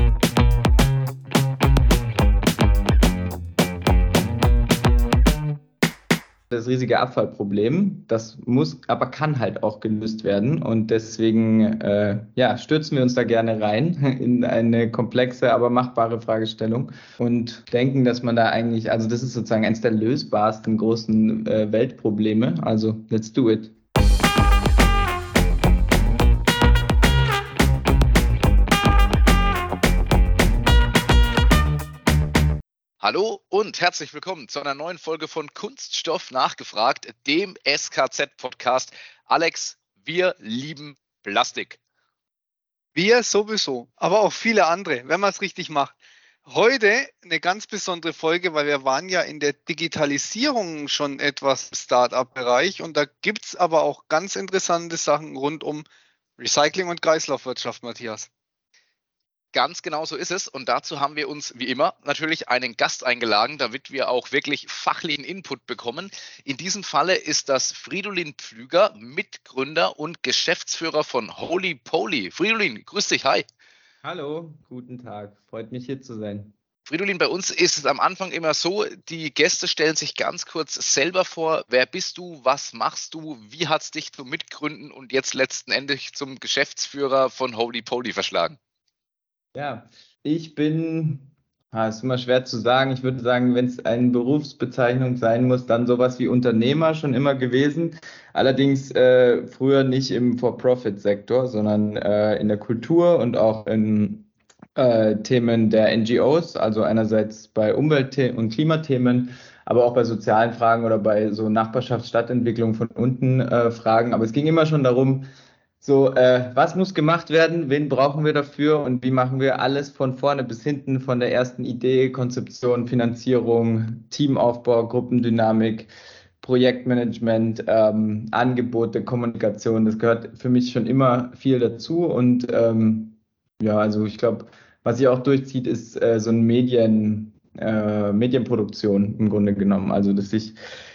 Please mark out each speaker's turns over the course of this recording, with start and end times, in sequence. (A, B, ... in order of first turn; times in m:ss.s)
0:06.5-0:23.7 A
0:33.0-0:41.8 B
0:42.9-0:45.9 C
0:46.4-0:55.8 C
0:56.4-0:58.3 C
0:59.5-1:13.4 B
1:14.0-1:16.5 A
1:16.9-1:28.6 B
1:29.5-1:44.2 A
1:44.8-1:55.2 A
1:55.8-2:05.9 A
2:06.4-2:20.6 A